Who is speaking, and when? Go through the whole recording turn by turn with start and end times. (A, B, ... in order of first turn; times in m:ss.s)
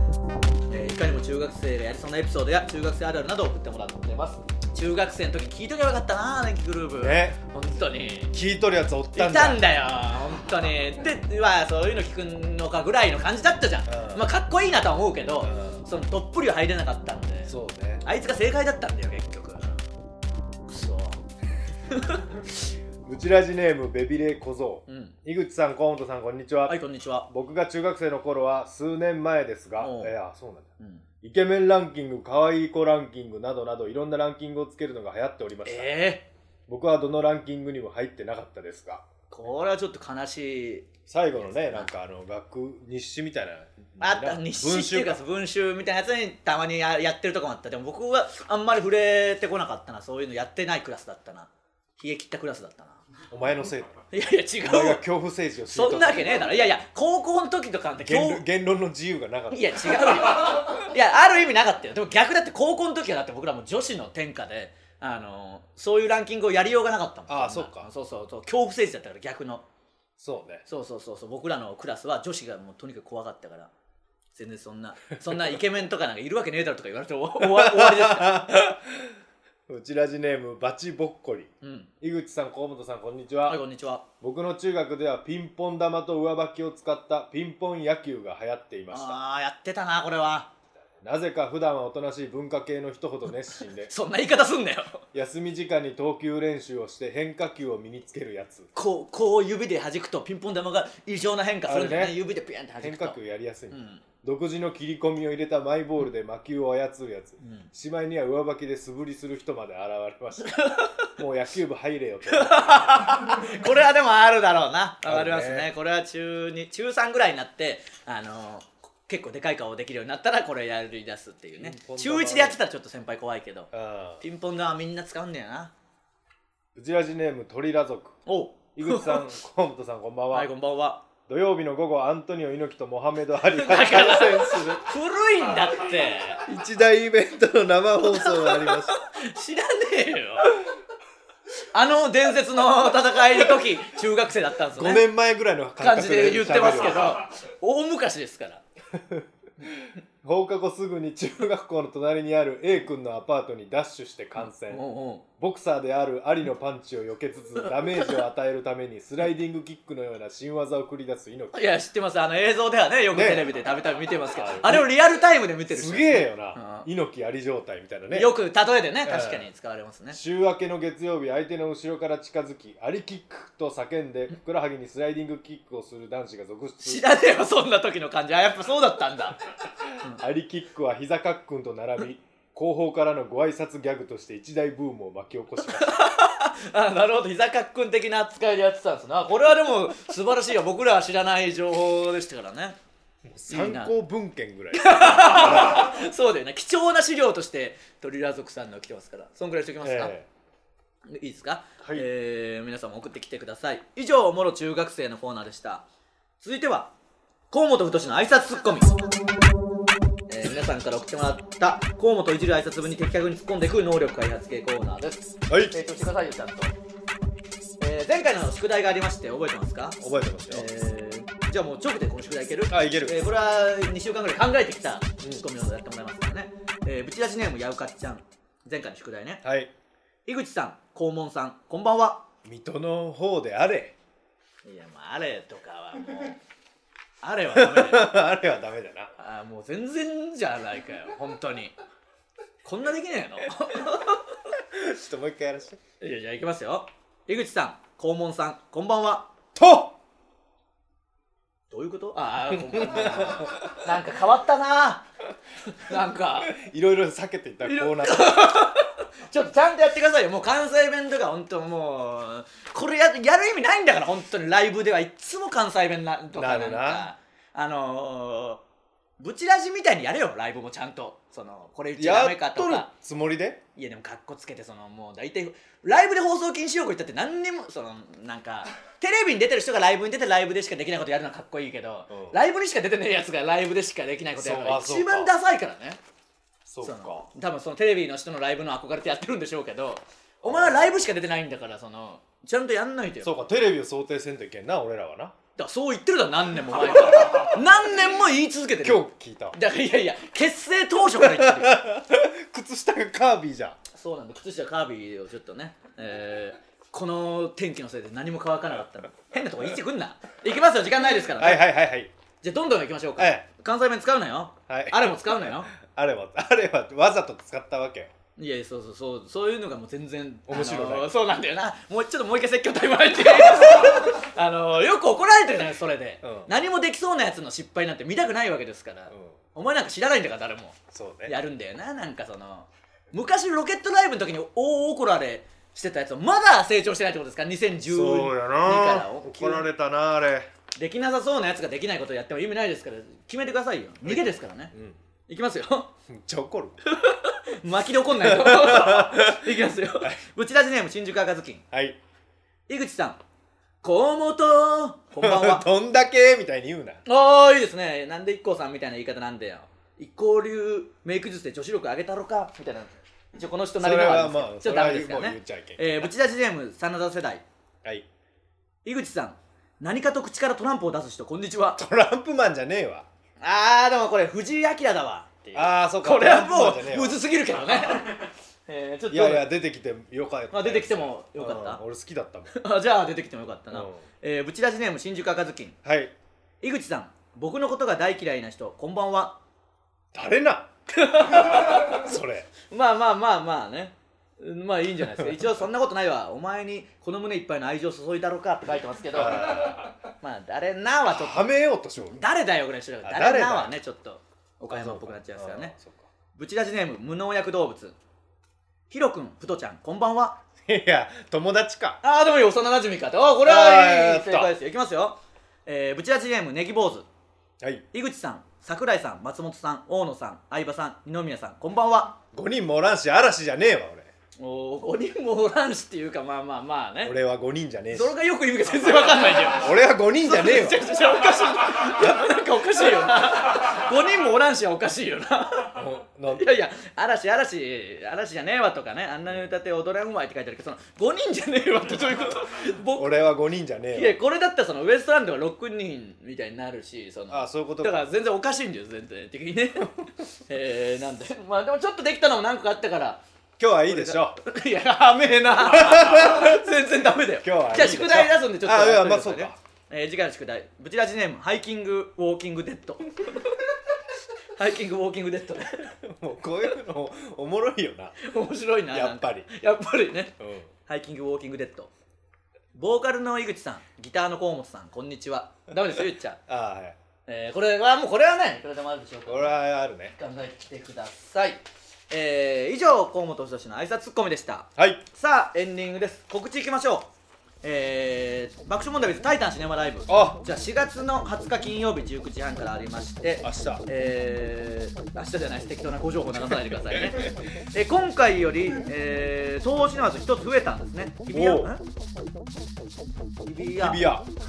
0:00.7-0:08.3 A
0:07.0-0:07.4 B
0:08.3-0:09.7 B
0:09.1-0:19.8 A
0:13.9-0:14.3 B
0:15.4-0:15.8 B
0:17.5-0:18.0 B
0:20.7-0:21.2 A
0:21.9-0:22.4 A
0:23.0-0:30.7 B
0:24.9-0:25.2 A
0:26.7-0:27.3 A
0:29.8-0:30.1 A
0:30.8-0:31.0 A
0:31.2-0:35.9 B
0:35.6-0:36.2 A
0:36.7-0:39.0 B
0:39.3-0:40.9 A
0:41.1-0:45.2 B
0:41.4-0:41.9 A
0:44.0-0:53.0 A
0:53.3-0:54.0 B
0:54.1-0:55.0 A
0:54.6-0:56.5 B
0:55.7-0:58.4 A
0:58.0-1:00.6 B
0:59.5-1:09.6 A
1:07.3-1:07.9 B
1:10.2-1:10.6 B
1:10.7-1:13.7 A
1:14.4-1:18.6 A
1:17.4-1:19.2 B
1:19.7-1:23.6 B
1:21.6-1:21.9 A
1:23.5-1:24.0 A
1:24.2-1:29.2 B
1:28.9-1:30.5 A
1:31.0-1:33.9 B
1:33.8-1:35.0 A
1:35.1-1:38.7 B
1:38.8-1:43.2 A
1:41.7-1:42.2 B
1:42.8-1:53.0 B
1:43.7-1:44.0 A
1:47.4-1:47.7 A
1:50.4-1:51.1 A
1:52.3-2:03.7 A
1:55.0-1:55.7 B
2:01.6-2:02.6 B
2:03.7-2:04.2 B
2:04.2-2:05.7 A
2:06.8-2:08.2 B
2:08.3-2:09.3 A
2:08.8-2:10.5 B
2:10.3-2:11.0 A
2:11.3-2:14.9 B
2:13.5-2:16.4 A
2:16.4-2:19.0 B
2:18.0-2:20.6 A
2:21.7-2:25.1 A
2:24.8-2:27.2 B
2:25.8-2:28.6 A
2:28.9-2:34.9 B
2:34.4-2:35.2 A
2:35.4-2:41.6 B
2:37.6-2:38.2 A
2:41.5-2:46.9 A
2:43.1-2:43.5 B
2:44.3-2:44.9 B
2:45.7-2:48.3 B
2:48.1-2:50.2 A
2:49.0-2:49.5 B
2:50.1-2:57.0 B
2:56.8-2:59.4 A
3:00.1-3:06.0 B
3:05.7-3:12.8 A
3:13.3-3:15.9 B
3:13.5-3:13.9 A
3:14.7-3:20.1 A
3:19.8-3:20.3 B
3:21.1-3:25.8 A
3:26.4-3:26.9 A
3:27.5-3:28.9 A
3:30.3-3:36.8 A
3:35.5-3:35.8 B
3:37.8-3:40.0 A
3:40.0-3:40.7 B
3:40.5-3:49.4 A
3:42.7-3:43.2 B
3:49.4-3:49.7 B
3:50.3-3:52.3 A
3:52.4-3:54.0 B
3:54.6-3:56.4 A
3:57.2-3:58.2 A
3:57.5-3:59.1 B
3:59.2-4:01.7 A
4:02.6-4:04.4 A
4:04.7-4:05.8 B
4:06.0-4:09.3 A
4:09.6-4:10.0 B
4:11.7-4:15.1 A
4:12.7-4:13.7 B
4:15.6-4:16.5 A
4:16.5-4:18.6 B
4:17.6-4:28.6 A
4:26.3-4:27.1 B
4:29.2-4:32.9 A
4:32.0-4:33.6 B
4:33.8-4:46.0 A
4:42.1-4:42.4 B
4:44.4-4:45.3 B
4:46.7-4:47.3 B
4:46.8-4:53.4 A
4:50.4-4:51.0 B
4:53.2-4:55.4 B
4:55.6-5:01.8 A
4:58.8-4:59.6 B
5:01.2-5:03.8 B
5:03.9-5:11.7 A
5:11.4-5:12.1 B
5:12.4-5:15.7 A
5:13.2-5:13.4 B
5:14.7-5:18.1 B
5:18.4-5:39.7 A
5:20.5-5:21.1 B
5:26.2-5:26.5 B
5:29.1-5:29.4 B
5:30.9-5:31.4 B
5:37.9-5:40.5 B
5:40.8-5:44.7 A
5:44.0-5:45.0 B
5:45.3-5:45.9 A
5:46.1-5:46.8 B
5:46.8-5:51.6 A
5:48.2-5:50.2 B
5:51.7-5:52.0 B
5:52.7-5:53.2 A
5:53.8-5:55.7 A
5:55.2-5:57.0 B
5:57.1-6:07.4 A
6:03.8-6:06.1 B
6:08.8-6:11.8 A
6:11.8-6:13.1 B
6:13.4-6:19.5 A
6:15.6-6:17.2 B
6:19.1-6:22.5 B
6:20.5-6:21.8 A
6:22.5-6:25.8 A
6:23.7-6:24.0 B
6:25.8-6:26.1 B
6:26.6-6:29.4 A
6:30.1-6:30.7 B
6:30.9-6:32.0 A
6:31.2-6:32.5 B
6:32.7-6:41.5 A
6:39.1-6:39.9 B
6:41.1-6:42.2 B
6:42.1-6:45.8 A
6:43.0-6:43.7 B
6:44.7-6:46.1 B
6:46.4-6:48.0 A
6:48.9-6:50.4 A
6:50.6-6:52.0 B
6:52.0-6:57.1 A
6:53.4-6:54.5 B
6:57.9-7:02.2 A
7:02.3-7:04.1 B
7:04.4-7:07.2 A
7:07.0-7:08.2 B
7:07.9-7:23.2 A
7:09.6-7:10.9 B
7:15.7-7:16.5 B
7:23.0-7:24.2 B
7:23.9-7:33.2 A
7:27.3-7:28.0 B
7:33.6-7:34.4 B
7:33.9-7:43.7 A
7:35.6-7:36.6 B
7:37.4-7:39.6 B
7:44.6-7:46.0 A
7:46.0-7:48.3 B
7:48.2-7:51.9 A
7:48.9-7:49.5 B
7:50.4-7:50.7 B
7:52.8-7:56.4 A
7:56.5-7:57.0 B
7:57.3-7:59.6 A
7:59.3-8:00.2 B
8:00.1-8:07.1 A
8:04.8-8:05.0 B
8:07.6-8:21.8 A
8:10.1-8:10.4 B
8:13.4-8:13.8 B
8:16.4-8:17.5 B
8:21.3-8:21.7 B
8:23.4-8:24.0 A
8:23.8-8:24.3 B